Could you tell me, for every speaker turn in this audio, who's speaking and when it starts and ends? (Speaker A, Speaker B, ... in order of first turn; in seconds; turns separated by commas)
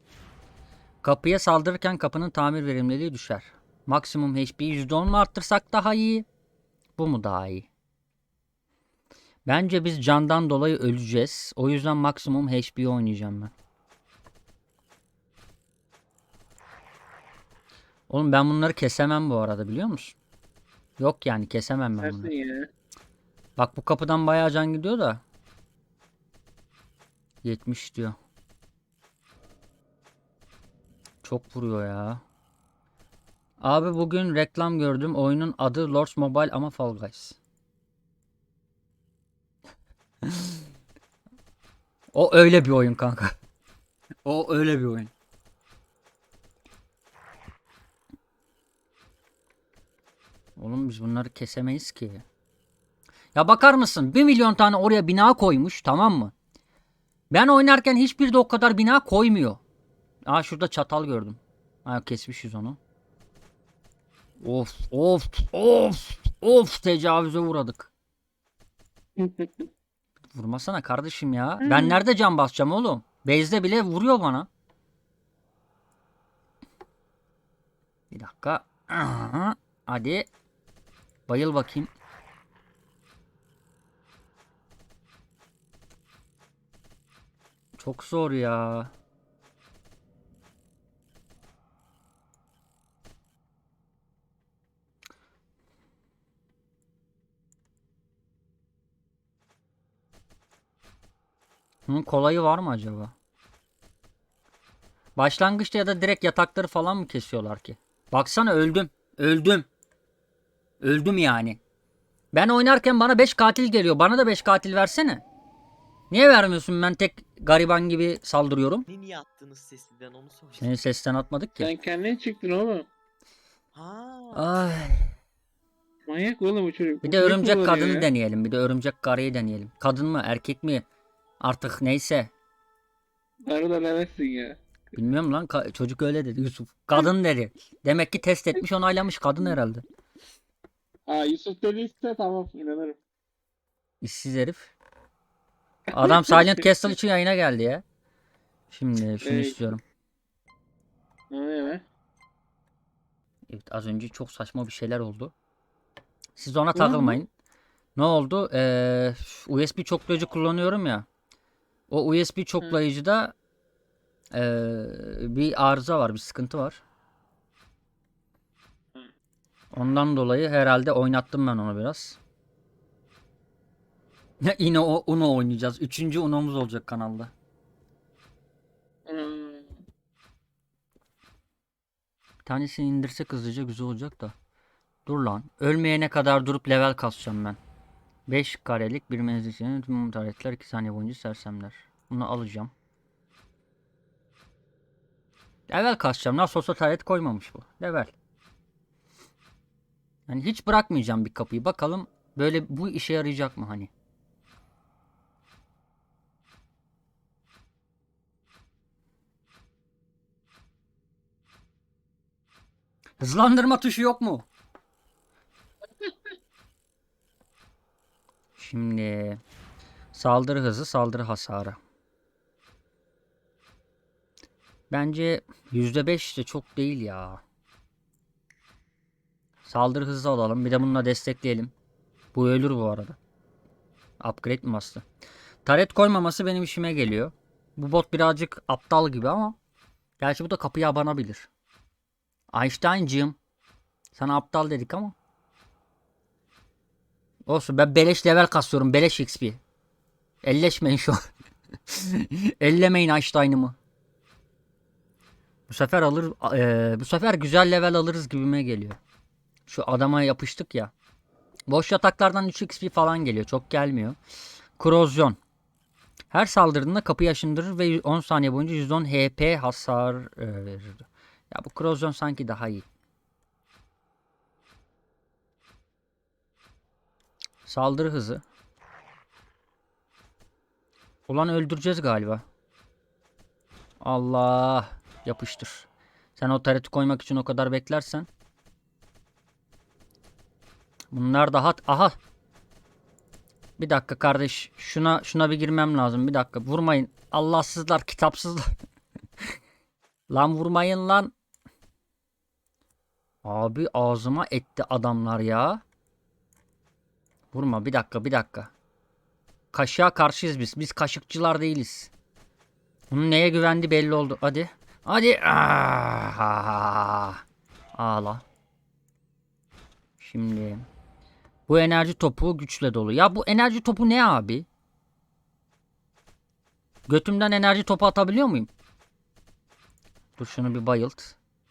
Speaker A: 1.0-6.3, Speaker A: 7.0-7.7, Speaker A: 9.5-13.5, Speaker A: 18.1-20.2, Speaker A: 21.0-22.3, Speaker B: 22.0-22.7, Speaker A: 23.6-25.2, Speaker A: 27.4-28.2, Speaker A: 31.2-32.2, Speaker A: 33.6-37.4, Speaker A: 40.2-40.6, Speaker A: 42.1-43.3, Speaker A: 44.2-45.1, Speaker A: 50.6-52.2, Speaker A: 53.3-56.3, Speaker A: 57.3-59.6, Speaker A: 60.2-62.8, Speaker A: 64.4-67.9, Speaker B: 69.2-69.7, Speaker A: 70.3-74.5, Speaker B: 71.6-72.0, Speaker A: 78.1-80.3, Speaker A: 81.3-81.9, Speaker A: 87.8-88.9, Speaker A: 101.9-103.1, Speaker A: 105.2-109.7, Speaker A: 110.8-111.6, Speaker A: 112.3-115.2, Speaker A: 116.1-118.9, Speaker C: 118.9-120.7, Speaker A: 120.6-121.7, Speaker B: 121.6-122.9, Speaker C: 123.7-124.6, Speaker A: 124.3-125.2, Speaker B: 126.1-128.1, Speaker A: 127.0-130.9, Speaker A: 131.4-132.3, Speaker B: 133.5-134.6, Speaker A: 134.9-139.8, Speaker B: 141.1-143.0, Speaker A: 144.0-144.7, Speaker A: 145.9-147.8, Speaker B: 145.9-146.7, Speaker A: 148.7-149.8, Speaker B: 149.2-149.8, Speaker B: 151.3-151.8, Speaker A: 153.5-155.3, Speaker A: 156.4-157.3, Speaker B: 156.7-157.2, Speaker A: 158.0-161.1, Speaker A: 161.9-163.3, Speaker A: 164.3-166.8, Speaker A: 169.7-172.2, Speaker A: 174.4-177.3, Speaker B: 179.1-179.8, Speaker A: 182.4-184.3, Speaker A: 185.1-187.6, Speaker A: 188.3-192.7, Speaker A: 195.7-198.1, Speaker A: 200.3-203.9, Speaker A: 213.2-214.5, Speaker A: 218.6-219.4, Speaker A: 220.1-221.8, Speaker A: 224.9-227.4, Speaker A: 229.7-231.7, Speaker A: 232.3-233.2, Speaker A: 234.2-235.1, Speaker A: 235.7-239.6, Speaker A: 240.2-241.5, Speaker A: 242.5-243.4, Speaker A: 244.1-245.2, Speaker A: 247.5-249.6, Speaker A: 250.4-251.2, Speaker A: 251.9-253.8, Speaker A: 255.7-259.0, Speaker A: 259.7-260.9, Speaker A: 261.7-264.2, Speaker A: 264.8-265.4, Speaker A: 266.3-272.9, Speaker A: 277.7-278.4, Speaker A: 281.3-282.4, Speaker A: 284.0-288.3, Speaker A: 291.1-292.2, Speaker A: 293.8-298.7, Speaker A: 300.3-301.3, Speaker A: 303.4-305.8, Speaker A: 307.5-308.7, Speaker A: 309.7-312.1, Speaker A: 313.1-317.4, Speaker A: 318.0-318.4, Speaker A: 320.2-320.9, Speaker A: 321.7-324.7, Speaker A: 327.1-328.7, Speaker A: 330.4-331.4